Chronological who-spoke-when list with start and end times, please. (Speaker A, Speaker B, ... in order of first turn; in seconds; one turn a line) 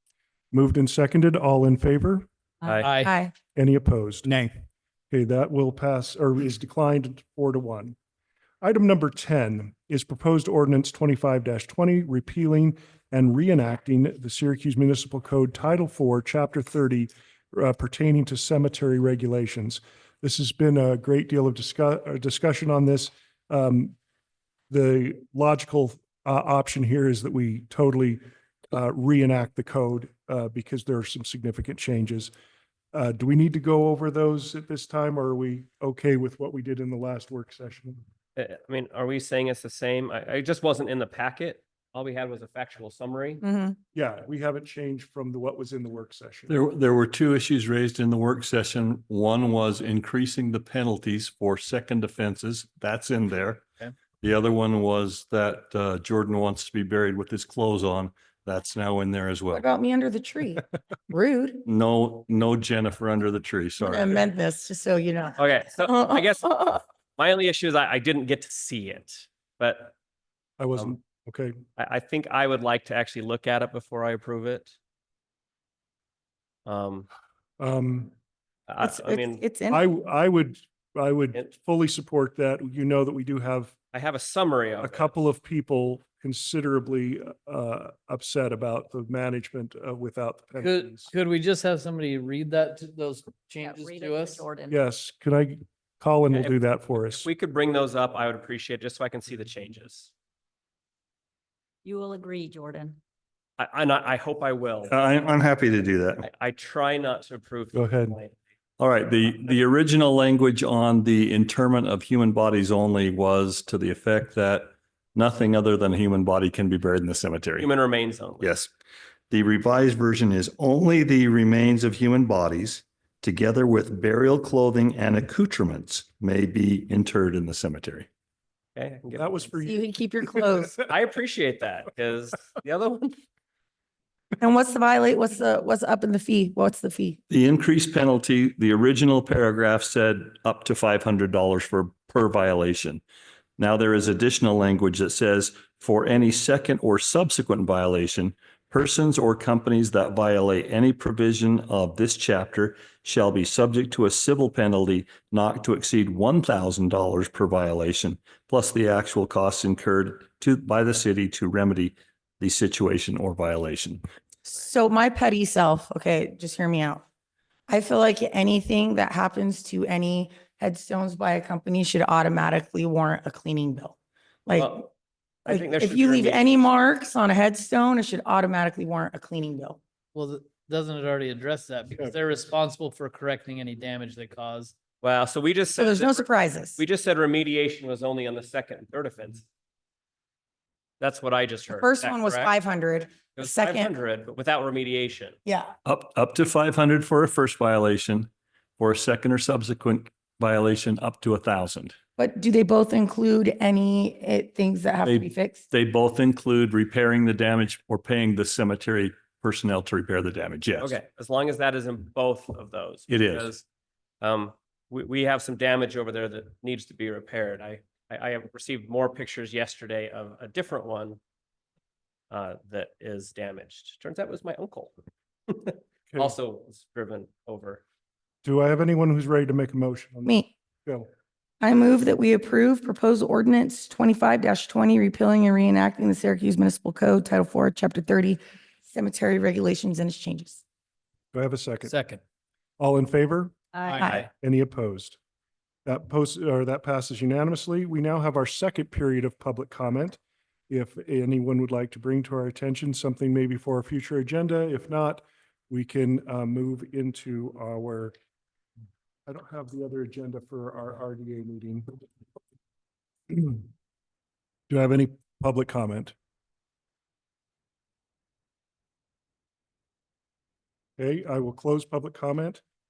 Speaker A: 0.5-2.3
Speaker B: 2.6-2.9
Speaker C: 2.6-2.9
Speaker D: 2.8-3.1
Speaker E: 3.0-3.3
Speaker A: 3.6-4.3
Speaker D: 4.2-4.5
Speaker A: 5.1-8.0
Speaker A: 8.6-23.9
Speaker A: 24.7-28.2
Speaker A: 28.7-32.3
Speaker A: 32.9-38.0
Speaker C: 38.4-43.4
Speaker E: 43.4-43.8
Speaker A: 43.9-46.6
Speaker F: 46.5-53.7
Speaker F: 54.2-59.6
Speaker E: 59.5-61.6
Speaker F: 61.6-64.2
Speaker E: 63.8-66.8
Speaker C: 65.4-66.5
Speaker C: 67.2-69.9
Speaker A: 70.6-71.6
Speaker C: 71.8-74.8
Speaker C: 76.7-77.1
Speaker A: 77.6-78.1
Speaker C: 78.7-79.4
Speaker E: 78.8-79.8
Speaker A: 79.7-83.8
Speaker C: 83.9-85.2
Speaker A: 84.8-91.1
Speaker D: 90.6-94.5
Speaker B: 93.6-94.8
Speaker A: 94.7-97.3
Speaker C: 96.3-96.6
Speaker C: 97.2-100.1
Speaker B: 101.8-103.0
Speaker C: 103.6-105.0
Speaker F: 104.9-106.3
Speaker C: 106.2-108.3
Speaker A: 107.7-108.2
Speaker F: 108.8-117.7
Speaker C: 117.6-118.5
Speaker F: 118.4-118.7
Speaker F: 119.3-128.1
Speaker C: 128.8-129.5
Speaker A: 129.2-129.8
Speaker E: 129.7-130.8
Speaker C: 130.9-133.2
Speaker E: 134.4-137.2
Speaker F: 137.3-143.0
Speaker F: 143.6-164.0
Speaker E: 164.5-167.0
Speaker E: 167.7-173.9
Speaker E: 174.5-174.9
Speaker C: 174.6-174.9
Speaker C: 175.4-176.7
Speaker E: 175.5-179.8
Speaker D: 180.1-184.7
Speaker C: 185.0-189.4
Speaker E: 185.8-186.8
Speaker C: 191.0-192.5
Speaker E: 191.7-193.9
Speaker C: 193.3-195.4
Speaker E: 195.5-195.7
Speaker F: 195.8-202.0
Speaker E: 202.2-205.7
Speaker F: 205.1-210.9
Speaker C: 210.8-213.7
Speaker F: 213.1-213.5
Speaker C: 214.2-221.2
Speaker C: 222.3-224.9
Speaker C: 225.5-227.8
Speaker A: 228.4-231.1
Speaker E: 230.2-230.5
Speaker E: 231.6-240.6
Speaker A: 241.3-241.9
Speaker D: 241.8-242.2
Speaker A: 242.8-243.6
Speaker B: 243.8-244.1
Speaker D: 243.8-244.2
Speaker A: 244.2-245.2
Speaker A: 245.9-250.2
Speaker A: 250.7-258.1
Speaker A: 259.3-261.9
Speaker A: 263.3-263.7
Speaker A: 264.7-266.1
Speaker A: 271.0-272.6